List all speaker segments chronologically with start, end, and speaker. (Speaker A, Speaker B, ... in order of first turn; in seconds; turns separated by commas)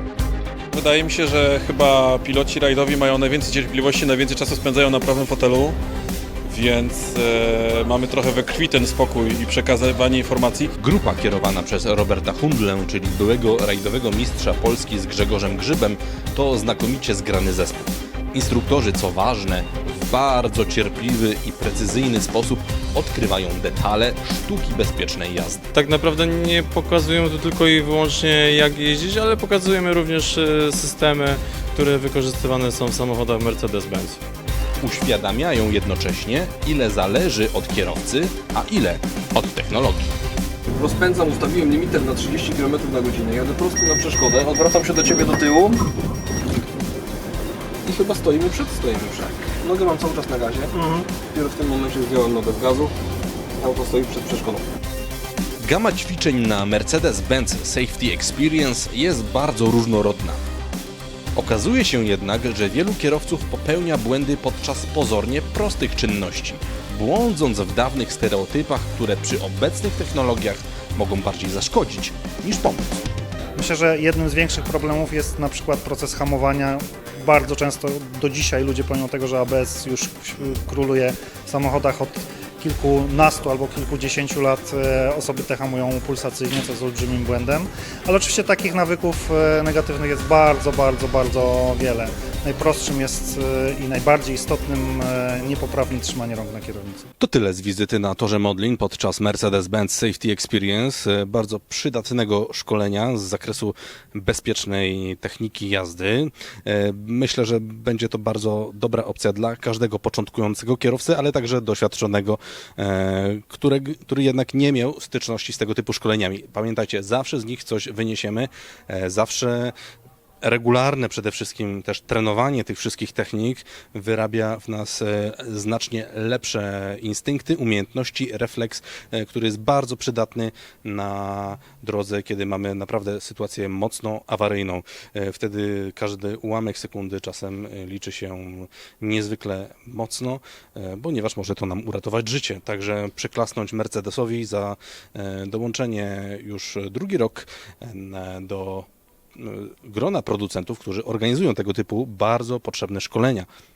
Speaker A: 0.7-5.8, Speaker A: 6.5-10.7, Speaker B: 10.8-25.6, Speaker C: 25.7-34.2, Speaker B: 34.8-40.1, Speaker D: 40.7-45.9, Speaker D: 47.9-52.9, Speaker D: 53.6-54.6, Speaker B: 55.6-60.4, Speaker B: 61.4-73.0, Speaker E: 73.5-97.1, Speaker B: 97.2-119.8, Speaker B: 120.4-153.5